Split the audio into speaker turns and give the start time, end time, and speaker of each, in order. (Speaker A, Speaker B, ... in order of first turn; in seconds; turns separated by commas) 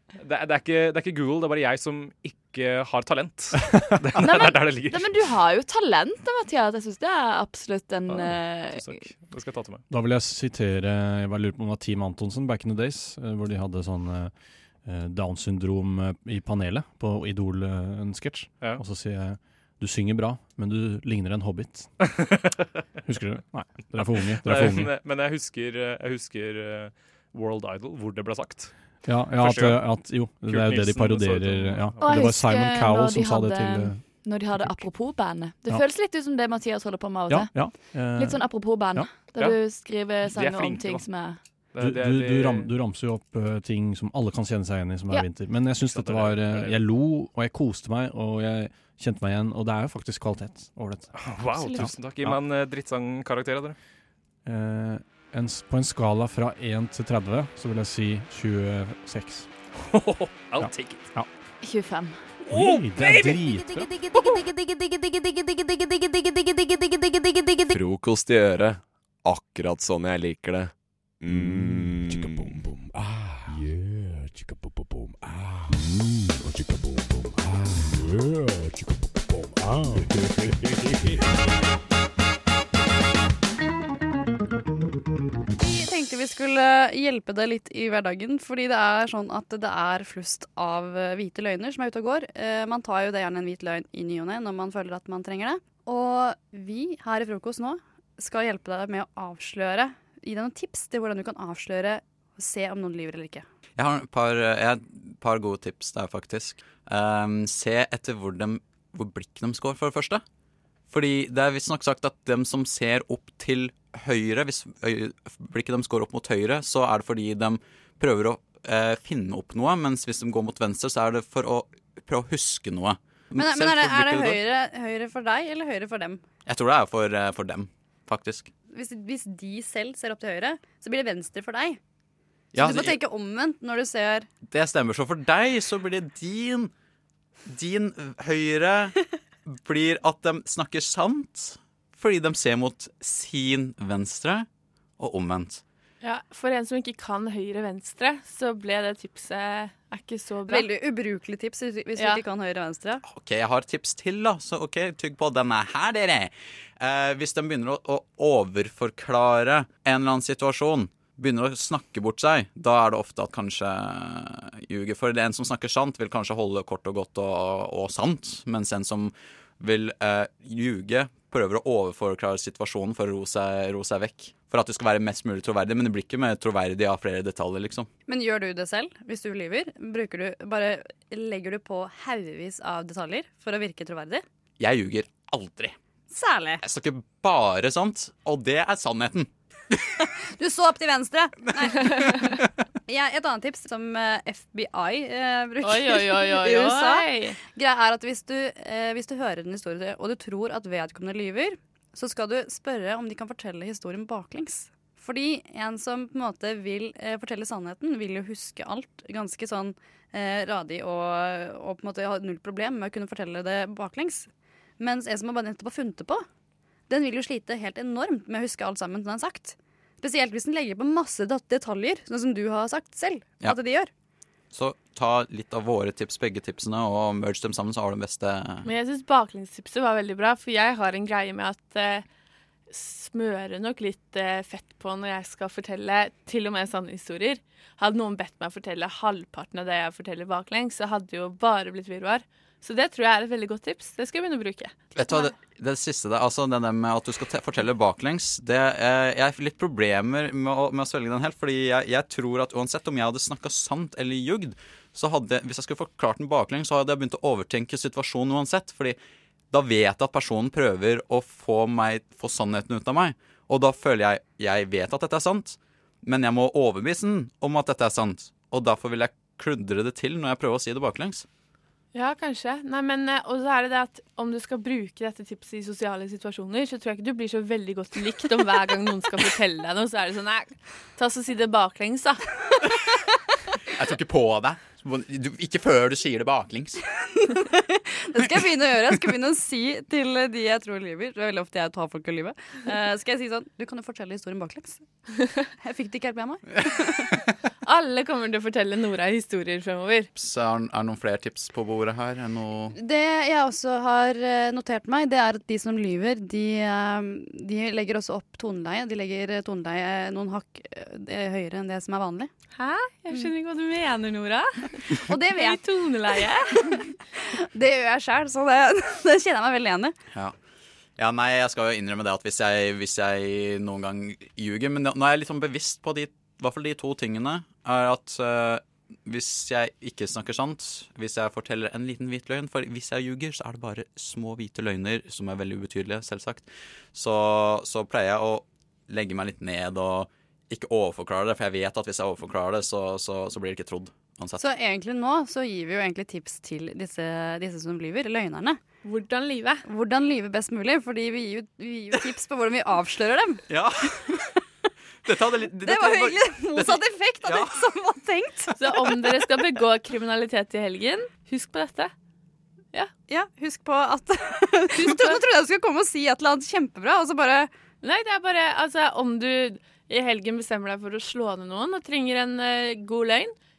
Speaker A: 0.2-5.2, Speaker B: 4.2-9.1, Speaker A: 8.1-9.8, Speaker C: 9.9-14.3, Speaker C: 14.8-21.9, Speaker C: 23.1-24.9, Speaker A: 24.4-28.7, Speaker C: 29.0-34.0, Speaker A: 29.3-32.2, Speaker B: 32.0-41.4, Speaker C: 34.5-34.9, Speaker C: 37.3-39.1, Speaker A: 40.2-41.1, Speaker A: 41.7-42.7, Speaker C: 41.8-51.1, Speaker A: 45.8-46.8, Speaker A: 51.1-53.8, Speaker B: 51.5-51.9, Speaker C: 51.8-52.4, Speaker C: 54.5-59.5, Speaker A: 59.8-61.1, Speaker C: 60.6-61.3, Speaker B: 61.6-62.2, Speaker C: 62.5-63.9, Speaker D: 67.7-72.6, Speaker E: 71.3-81.5, Speaker F: 85.6-103.5, Speaker G: 103.8-110.2, Speaker G: 110.9-124.4, Speaker F: 123.3-126.2, Speaker G: 126.5-128.5, Speaker F: 128.7-131.8, Speaker G: 132.5-133.0, Speaker F: 132.5-134.3, Speaker G: 134.5-136.7, Speaker G: 137.5-138.9, Speaker G: 139.5-144.5, Speaker G: 145.0-145.6, Speaker H: 146.0-150.7, Speaker F: 150.5-153.0, Speaker H: 152.0-152.2, Speaker G: 153.1-177.9, Speaker F: 178.1-184.2, Speaker G: 184.6-185.8, Speaker F: 186.1-186.6, Speaker G: 186.6-189.3, Speaker F: 190.3-192.3, Speaker H: 191.8-192.2, Speaker F: 192.9-214.3, Speaker H: 195.6-197.4, Speaker F: 214.8-216.3, Speaker F: 216.9-223.9, Speaker G: 224.5-228.7, Speaker H: 228.6-232.1, Speaker H: 232.7-245.3, Speaker G: 244.9-259.0, Speaker G: 259.5-271.2, Speaker H: 271.9-282.3, Speaker G: 283.7-286.8, Speaker F: 287.2-294.8, Speaker F: 295.6-297.1, Speaker H: 297.6-300.1, Speaker G: 300.1-302.8, Speaker F: 302.7-312.3, Speaker H: 312.6-316.8, Speaker F: 315.0-315.6, Speaker F: 317.3-319.9, Speaker G: 321.0-344.4, Speaker F: 344.4-348.6, Speaker H: 348.8-349.6, Speaker F: 349.7-353.4, Speaker G: 353.5-354.3, Speaker G: 355.1-357.6, Speaker F: 355.6-358.7, Speaker H: 358.6-361.9, Speaker F: 363.1-367.5, Speaker H: 364.8-365.2, Speaker H: 367.8-373.4